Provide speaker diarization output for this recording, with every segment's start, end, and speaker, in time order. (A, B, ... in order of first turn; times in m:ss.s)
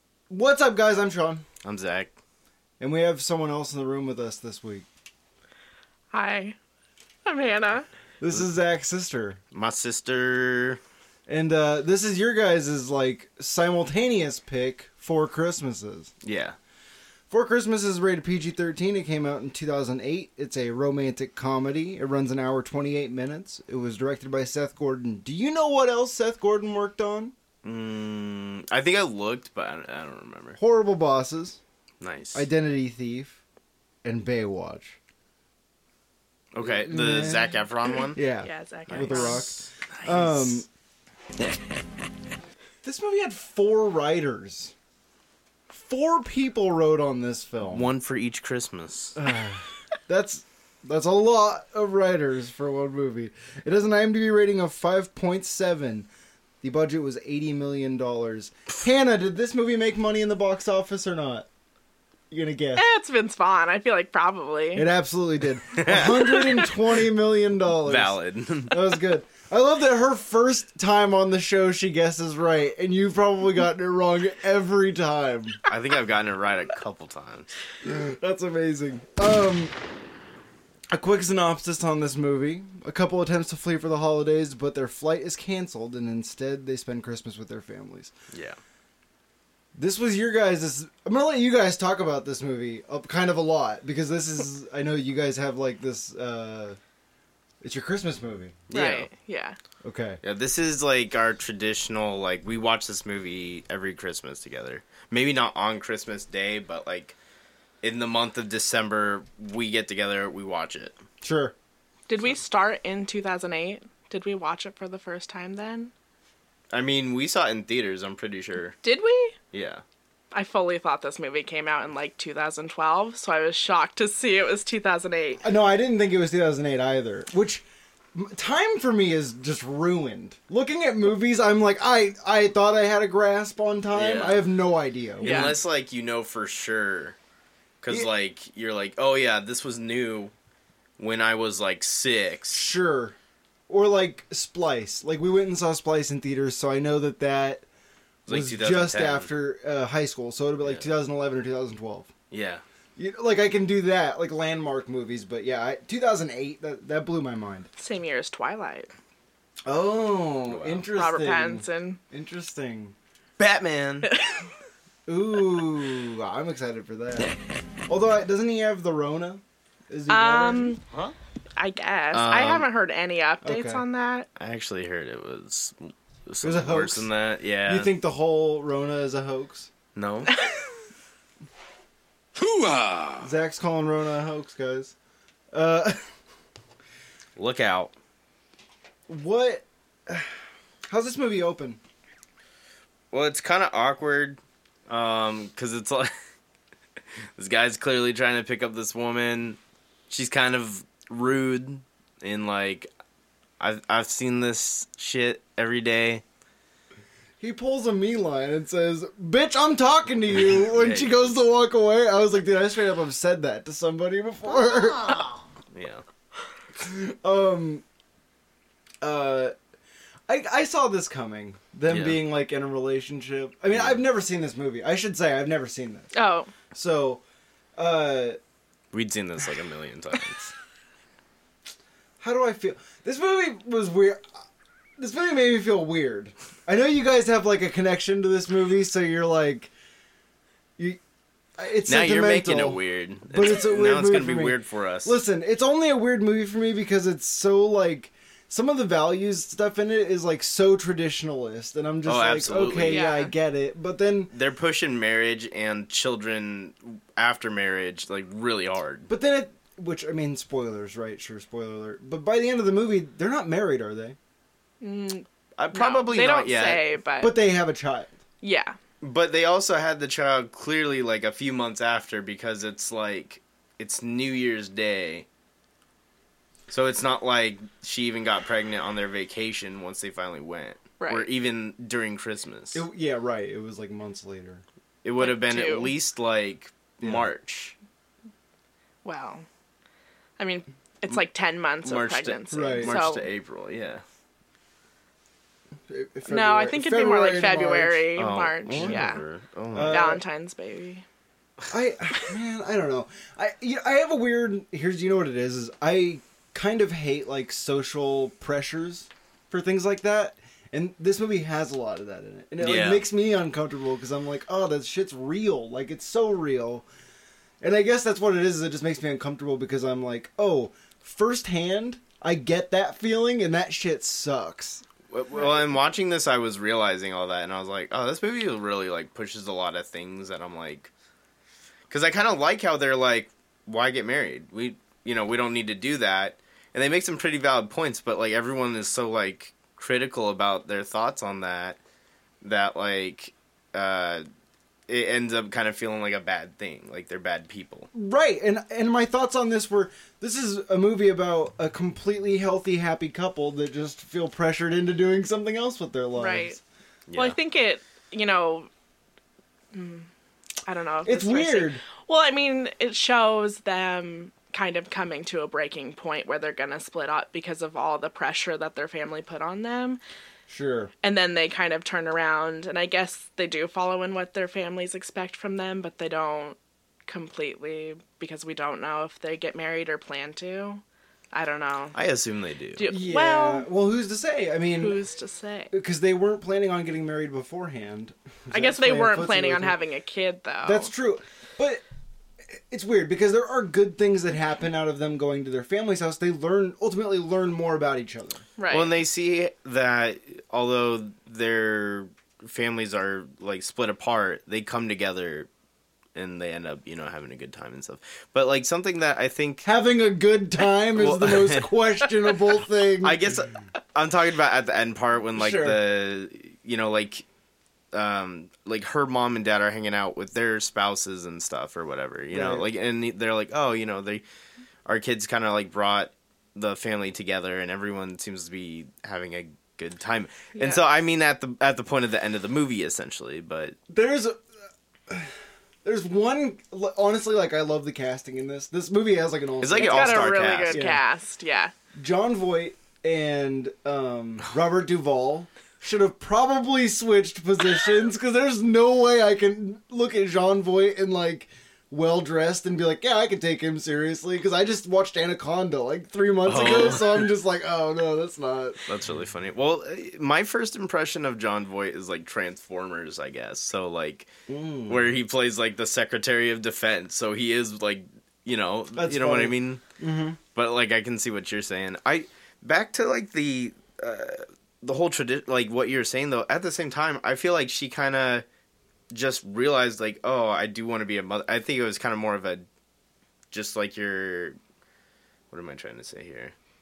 0:00.3-0:01.4 A
0:01.6-0:02.1 B
0:02.8-0:04.8 A
0:06.1-0:06.6 C
0:07.2-0:07.9 C
0:08.2-0:09.4 A
0:09.5-0:10.8 B
0:11.3-0:16.1 A
0:16.2-0:16.6 B
0:17.3-0:27.3 A
0:27.6-0:30.6 B
0:30.6-0:31.6 A
0:32.0-0:32.5 B
0:32.3-0:33.4 A
0:34.0-0:35.0 A
0:36.5-0:38.2 B
0:36.6-0:37.6 A
0:38.1-0:40.7 A
0:38.4-0:40.6 C
0:38.9-0:39.6 B
0:42.8-0:44.7 A
0:45.7-0:47.9 A
0:47.7-0:49.2 B
0:49.2-0:56.1 A
0:56.6-1:01.5 A
1:02.3-1:02.8 A
1:02.8-1:04.9 C
1:04.7-1:15.6 A
1:05.7-1:06.7 B
1:07.8-1:08.8 B
1:15.7-1:17.5 B
1:17.8-1:19.7 A
1:20.9-1:28.1 A
1:28.3-1:28.6 B
1:29.7-1:36.8 A
1:37.6-1:38.6 A
1:38.7-1:39.1 B
1:38.7-1:39.6 C
1:39.8-1:40.2 A
1:40.2-1:47.2 B
1:47.8-1:51.0 B
1:51.2-1:51.5 A
1:52.1-1:55.9 C
1:56.7-1:58.8 B
1:58.8-1:59.4 C
1:59.5-1:59.8 B
2:00.3-2:05.4 C
2:05.4-2:15.5 A
2:13.9-2:14.4 B
2:15.2-2:15.6 C
2:15.2-2:17.2 B
2:17.8-2:20.3 B
2:21.0-2:22.6 B
2:22.5-2:23.2 A
2:23.7-2:27.6 A
2:28.3-2:29.3 B
2:28.3-2:32.1 A
2:30.6-2:30.9 B
2:32.3-2:32.6 B
2:33.0-2:37.7 A
2:37.8-2:38.9 C
2:39.6-2:42.9 A
2:40.5-2:40.8 B
2:40.9-2:42.0 C
2:43.4-2:44.1 B
2:44.1-2:44.4 C
2:45.1-2:47.3 A
2:47.9-2:50.8 A
2:50.1-2:50.8 C
2:50.9-2:51.1 B
2:51.6-2:54.3 C
2:52.1-2:52.7 B
2:53.4-2:53.8 A
2:54.4-2:57.9 B
2:56.4-2:57.1 A
2:57.6-2:59.7 A
2:59.9-3:00.3 B
3:02.4-3:03.3 B
3:03.2-3:04.9 A
3:05.5-3:06.1 A
3:07.4-3:07.9 B
3:09.1-3:10.4 A
3:10.9-3:11.8 A
3:13.1-3:16.1 B
3:17.4-3:19.6 B
3:20.1-3:22.9 B
3:23.6-3:26.2 B
3:27.4-3:35.3 A
3:30.3-3:31.4 B
3:35.7-3:36.0 B
3:36.8-3:37.8 A
3:39.0-3:39.5 A
3:40.3-3:46.1 A
3:41.9-3:42.2 B
3:43.7-3:44.0 B
3:46.1-3:46.5 C
3:46.7-3:47.2 A
3:47.8-3:48.4 A
3:48.9-3:50.5 B
3:52.2-3:54.2 A
3:55.0-3:59.7 A
4:01.6-4:14.3 A
4:01.9-4:05.2 B
4:12.0-4:13.0 B
4:12.8-4:13.3 C
4:14.3-4:19.1 B
4:19.1-4:24.2 A
4:24.8-4:27.3 C
4:25.6-4:26.8 B
4:27.2-4:28.1 A
4:28.4-4:28.8 C
4:29.0-4:35.2 B
4:36.7-4:42.8 B
4:41.0-4:41.3 C
4:42.7-4:44.6 A
4:45.0-4:47.8 B
4:45.2-4:45.9 C
4:49.0-4:49.4 C
4:50.4-4:53.2 C
4:51.8-4:54.0 B
4:52.5-4:53.0 A
4:55.9-4:58.0 A
4:56.3-4:59.2 C
4:58.2-5:00.2 B
4:58.7-4:59.1 A
4:59.7-5:00.2 A
4:59.8-5:01.0 C
5:01.7-5:16.8 A
5:12.6-5:13.0 B
5:17.6-5:24.8 A
5:25.1-5:30.9 B
5:31.9-5:41.8 B
5:42.4-5:44.2 B
5:44.9-5:47.9 B
5:47.9-5:56.6 A
5:56.1-5:56.6 C
5:57.1-5:57.4 B
5:57.1-5:58.7 C
5:59.7-6:00.1 C
6:00.7-6:10.0 C
6:01.0-6:01.8 A
6:10.5-6:10.9 A
6:11.0-6:22.0 C
6:21.9-6:22.9 B
6:22.8-6:23.7 C
6:22.9-6:25.0 A
6:24.8-6:25.7 C
6:25.7-6:29.8 A
6:28.5-6:30.9 C
6:30.6-6:31.8 A
6:32.5-6:38.4 A
6:38.6-6:38.9 C
6:38.7-6:45.5 B
6:46.1-6:49.6 B
6:49.6-6:53.2 A
6:50.9-6:51.7 B
6:53.0-6:57.2 B
6:55.3-6:55.8 A
6:57.9-7:04.2 B
7:02.3-7:02.7 A
7:04.8-7:13.8 B
7:10.6-7:10.8 C
7:13.9-7:14.4 A
7:15.1-7:21.0 A
7:19.6-7:20.9 B
7:19.8-7:21.7 C
7:22.0-7:38.9 A
7:36.4-7:37.2 B
7:38.8-7:44.3 B
7:44.5-7:45.1 A
7:44.9-7:49.8 B
7:48.9-7:50.4 A
7:50.5-7:58.4 B
7:59.1-8:02.6 B
8:03.5-8:04.6 B
8:05.5-8:06.5 B